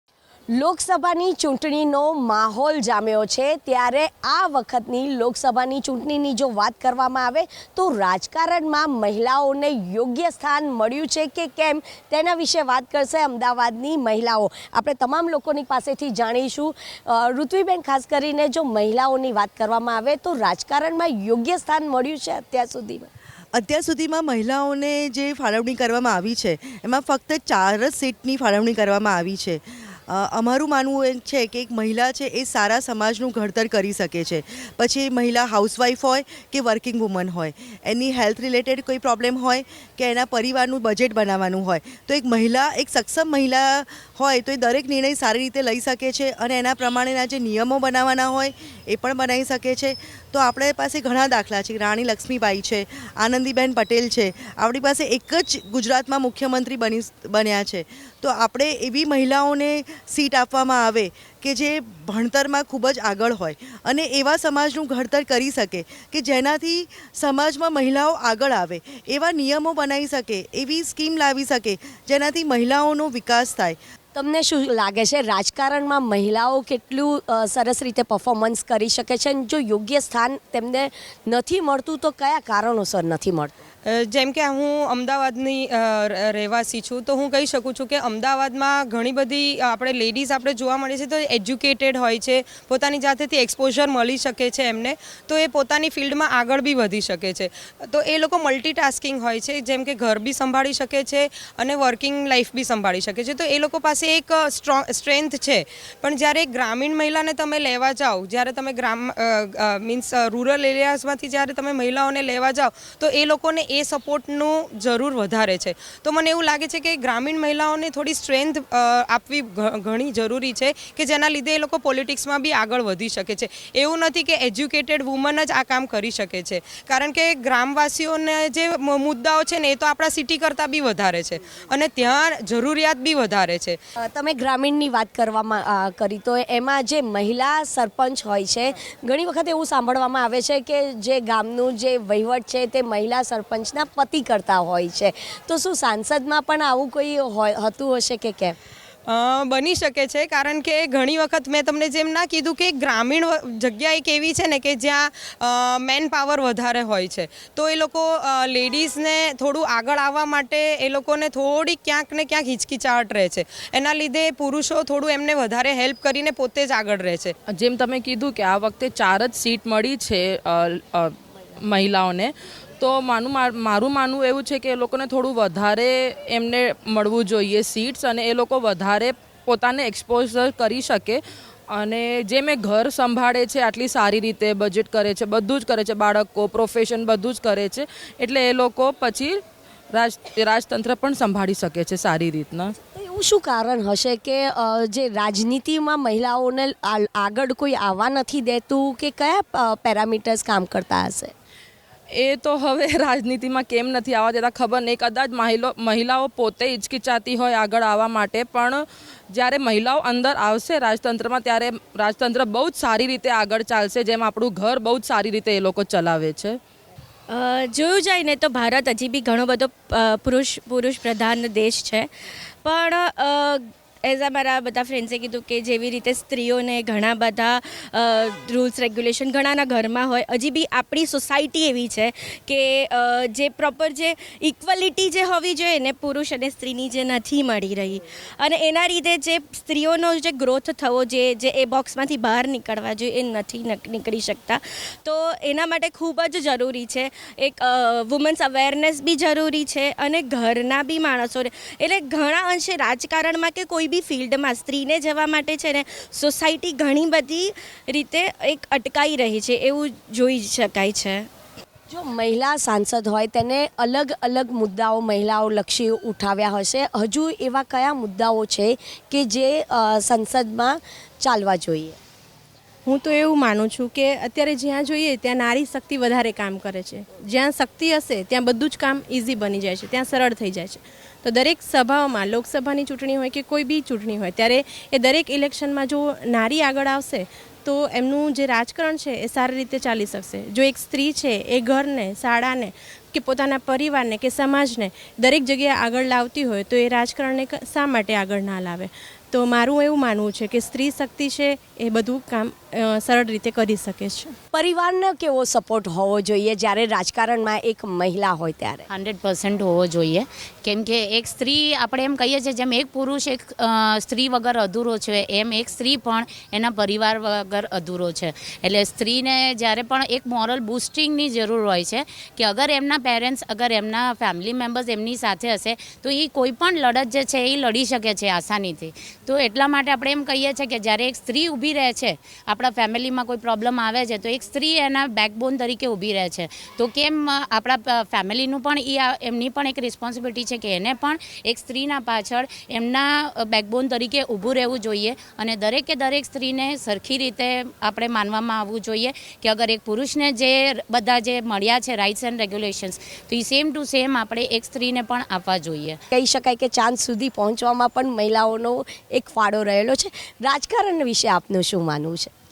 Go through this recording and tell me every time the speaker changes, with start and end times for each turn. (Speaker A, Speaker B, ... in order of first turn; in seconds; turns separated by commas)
Speaker A: 0.5-23.1, Speaker B: 23.6-73.8, Speaker A: 74.1-83.6, Speaker C: 84.1-133.8, Speaker A: 134.1-148.6, Speaker C: 149.1-167.3, Speaker D: 167.5-189.4, Speaker D: 189.9-192.7, Speaker A: 192.9-201.3, Speaker D: 202.1-216.6, Speaker E: 217.3-222.1, Speaker E: 222.6-261.3, Speaker A: 261.9-272.0, Speaker F: 272.9-304.3, Speaker A: 304.5-308.9, Speaker G: 308.9-356.0, Speaker A: 356.1-362.3